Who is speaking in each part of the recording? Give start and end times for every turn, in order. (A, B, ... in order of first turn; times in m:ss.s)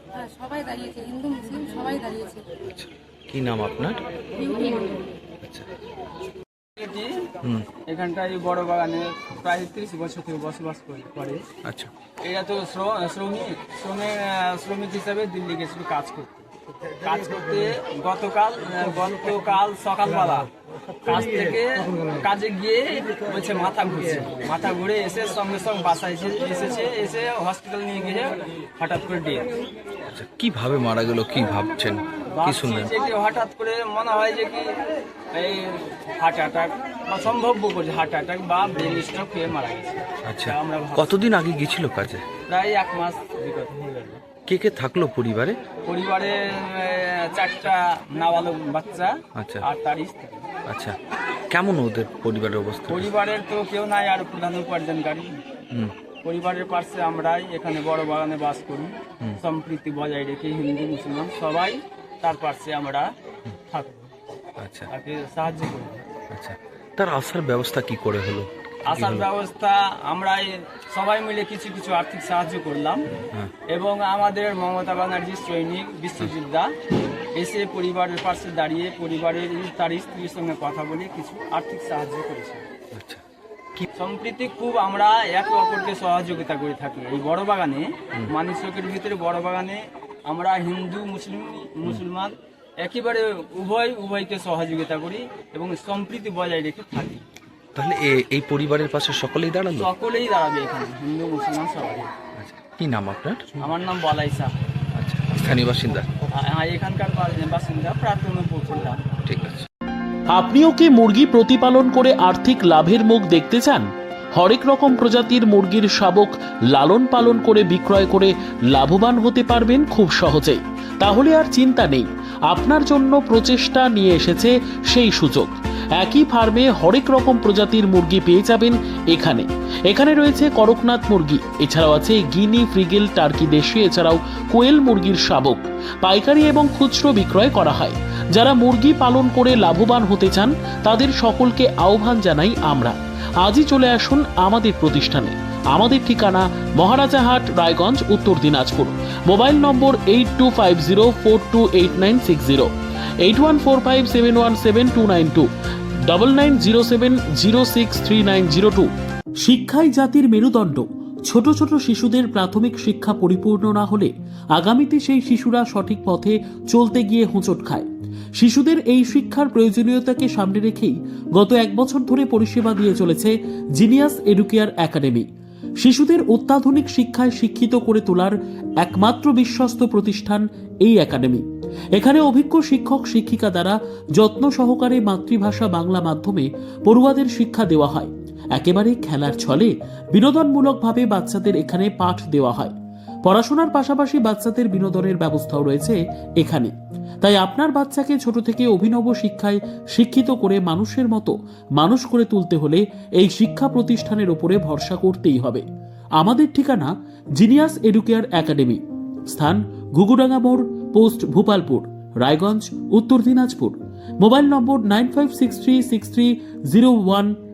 0:00.1-0:02.4 A
0:02.6-0:04.0 B
0:04.4-0:05.1 A
0:05.4-0:05.7 B
0:06.8-0:07.3 C
0:07.9-0:11.4 C
0:11.6-0:11.9 B
0:12.2-0:16.5 C
0:17.0-0:20.5 C
0:21.0-0:29.5 C
0:30.1-0:32.9 B
0:32.3-0:34.8 C
0:35.3-0:41.1 C
0:40.2-0:42.2 B
0:42.5-0:44.2 C
0:44.4-0:45.6 B
0:45.8-0:50.5 C
0:49.3-0:49.6 B
0:50.7-0:51.0 B
0:51.5-0:53.1 B
0:52.9-0:55.4 C
0:56.2-1:03.1 C
1:03.7-1:04.1 C
1:04.6-1:04.9 B
1:04.9-1:06.0 C
1:06.3-1:09.3 B
1:08.9-1:13.0 C
1:13.7-1:16.7 C
1:17.4-1:22.6 C
1:22.9-1:23.2 B
1:24.0-1:37.2 C
1:37.7-1:39.9 B
1:39.8-1:42.1 C
1:42.4-1:43.7 B
1:43.6-1:44.5 C
1:44.9-1:46.2 B
1:46.4-1:49.0 C
1:49.2-1:49.6 B
1:50.3-2:32.7 D
2:33.2-2:35.5 D
2:36.1-2:38.9 D
2:39.4-2:47.9 D
2:48.4-2:55.2 D
2:55.8-3:01.4 D
3:02.0-3:12.7 D
3:13.2-3:25.6 D
3:26.2-3:37.3 D